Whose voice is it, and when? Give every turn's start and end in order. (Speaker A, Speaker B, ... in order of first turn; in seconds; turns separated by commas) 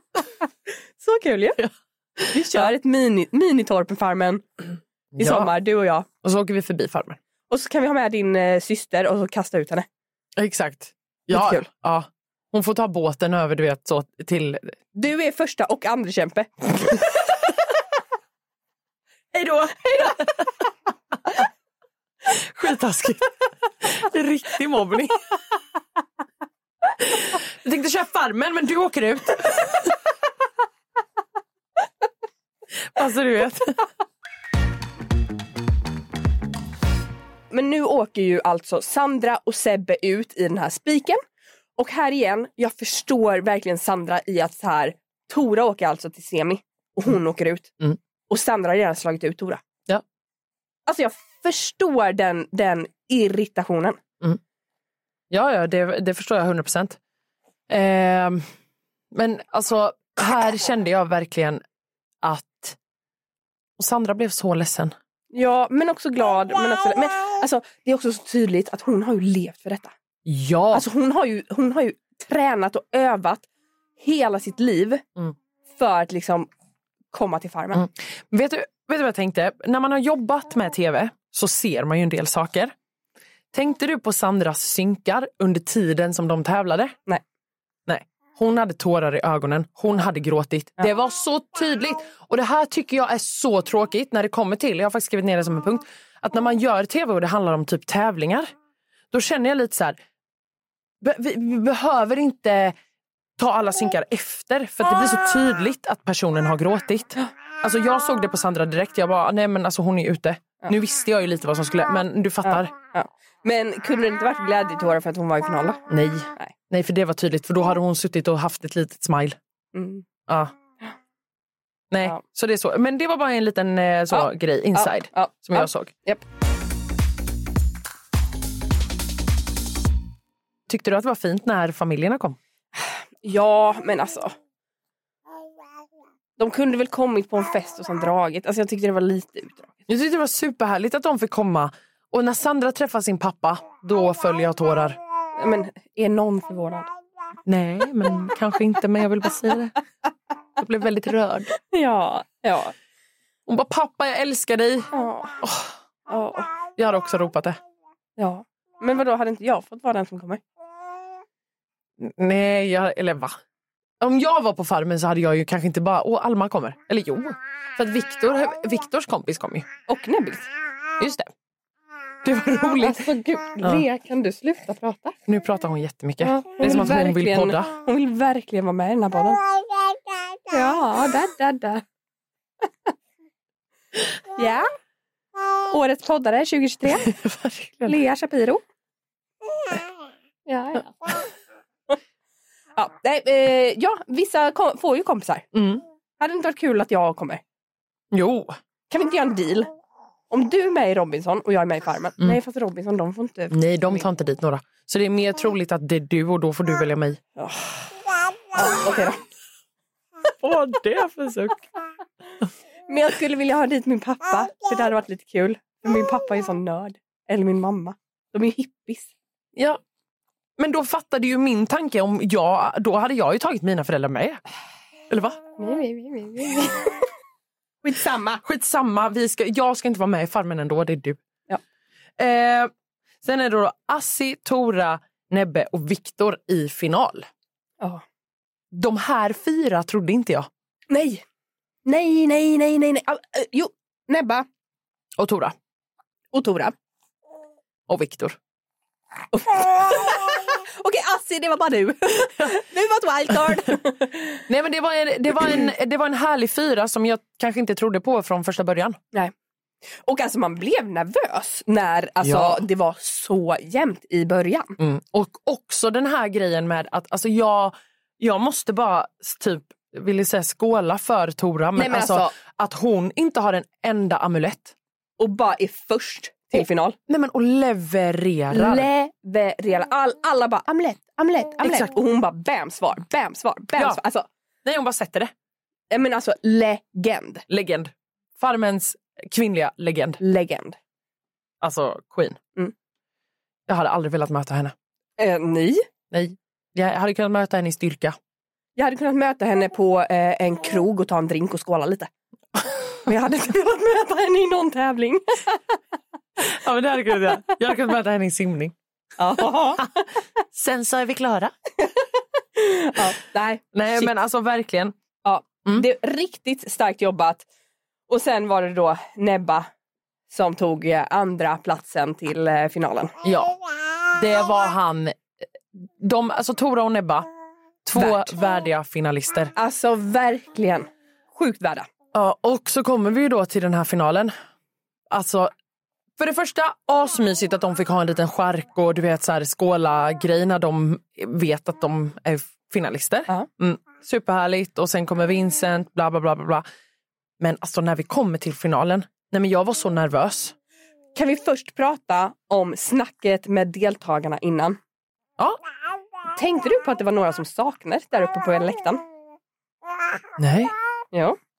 Speaker A: 1.0-1.6, Speaker B: 1.6-2.7, Speaker A: 2.3-4.4, Speaker B: 5.1-5.5, Speaker A: 5.2-6.1, Speaker B: 6.2-7.2, Speaker A: 7.5-9.8, Speaker B: 10.4-14.7, Speaker A: 11.3-11.7, Speaker A: 14.9-17.2, Speaker B: 19.3-20.4, Speaker A: 19.9-20.1, Speaker B: 22.2-25.2, Speaker B: 27.0-29.9, Speaker B: 32.8-33.9, Speaker A: 37.5-41.2, Speaker A: 41.8-47.7, Speaker A: 48.3-49.6, Speaker A: 50.9-54.0, Speaker B: 55.3-57.0, Speaker B: 57.7-58.5, Speaker B: 59.1-61.6, Speaker B: 62.2-62.8, Speaker B: 63.8-64.9, Speaker A: 65.3-69.9, Speaker B: 70.2-70.8, Speaker A: 70.7-73.5, Speaker A: 74.0-75.0, Speaker A: 75.7-76.5, Speaker A: 77.1-77.8, Speaker B: 77.7-82.7, Speaker B: 83.5-87.0, Speaker B: 87.9-98.5, Speaker B: 99.1-100.0, Speaker B: 101.0-102.8, Speaker B: 103.4-112.7, Speaker A: 112.4-115.8, Speaker B: 115.9-119.4, Speaker A: 119.7-120.0, Speaker B: 120.3-120.5, Speaker B: 121.9-125.9, Speaker A: 124.1-126.2, Speaker B: 130.7-132.4, Speaker A: 132.8-134.3, Speaker A: 136.4-139.7, Speaker B: 139.9-145.0, Speaker A: 145.4-146.9, Speaker B: 147.4-149.8, Speaker B: 150.6-151.6, Speaker A: 151.7-152.7, Speaker B: 153.5-155.7, Speaker A: 154.9-155.4, Speaker A: 156.1-156.5, Speaker B: 156.8-157.6, Speaker A: 158.2-160.4, Speaker B: 162.0-163.4, Speaker B: 164.0-169.7, Speaker A: 169.9-170.5, Speaker B: 171.0-171.3, Speaker B: 172.2-173.1, Speaker A: 172.8-175.2, Speaker B: 175.3-177.7, Speaker A: 176.2-179.4, Speaker A: 180.5-181.8, Speaker A: 184.3-184.7, Speaker A: 185.7-187.1, Speaker B: 187.0-187.9, Speaker A: 187.8-188.6, Speaker A: 190.5-191.2, Speaker A: 192.8-195.5, Speaker B: 195.5-195.8, Speaker A: 196.2-197.4, Speaker B: 198.1-198.6, Speaker A: 198.9-199.7, Speaker A: 200.3-204.1, Speaker B: 203.5-207.2, Speaker A: 207.4-207.9, Speaker A: 208.5-209.2, Speaker B: 210.4-211.7, Speaker A: 212.9-219.1, Speaker B: 220.6-224.4, Speaker B: 225.1-225.4, Speaker A: 225.6-227.0, Speaker A: 227.8-228.4, Speaker B: 228.4-231.2, Speaker B: 232.2-232.7, Speaker B: 233.2-237.3, Speaker B: 238.7-240.5, Speaker A: 240.9-241.2, Speaker A: 241.8-244.4, Speaker B: 245.2-245.5, Speaker A: 246.3-246.7, Speaker B: 247.9-248.4, Speaker A: 249.3-254.4, Speaker B: 254.5-259.0, Speaker A: 260.0-264.8, Speaker B: 262.2-262.6, Speaker B: 264.8-274.7, Speaker A: 271.8-272.3, Speaker A: 275.2-277.0, Speaker B: 277.1-278.9, Speaker A: 278.5-284.3, Speaker B: 281.6-281.9, Speaker B: 284.6-285.3, Speaker A: 285.9-287.4, Speaker B: 287.5-290.2, Speaker A: 290.2-290.8, Speaker B: 291.6-292.4, Speaker B: 293.7-294.7, Speaker A: 295.2-295.9, Speaker B: 296.1-298.1, Speaker A: 298.8-302.1, Speaker A: 303.1-305.6, Speaker B: 306.4-308.7, Speaker A: 309.2-310.0, Speaker B: 309.4-309.9, Speaker B: 310.5-311.5, Speaker A: 312.6-314.1, Speaker B: 313.7-314.9, Speaker A: 315.2-317.4, Speaker A: 318.1-319.7, Speaker A: 320.3-323.1, Speaker B: 323.2-323.6, Speaker B: 324.1-325.2, Speaker B: 325.7-327.3, Speaker B: 327.8-329.5, Speaker A: 327.9-328.3, Speaker A: 329.6-331.9, Speaker B: 332.1-334.3, Speaker B: 335.1-335.5, Speaker B: 336.2-346.6, Speaker B: 347.4-350.5, Speaker A: 351.1-354.8, Speaker A: 356.3-359.0, Speaker B: 360.4-360.7, Speaker A: 361.1-361.4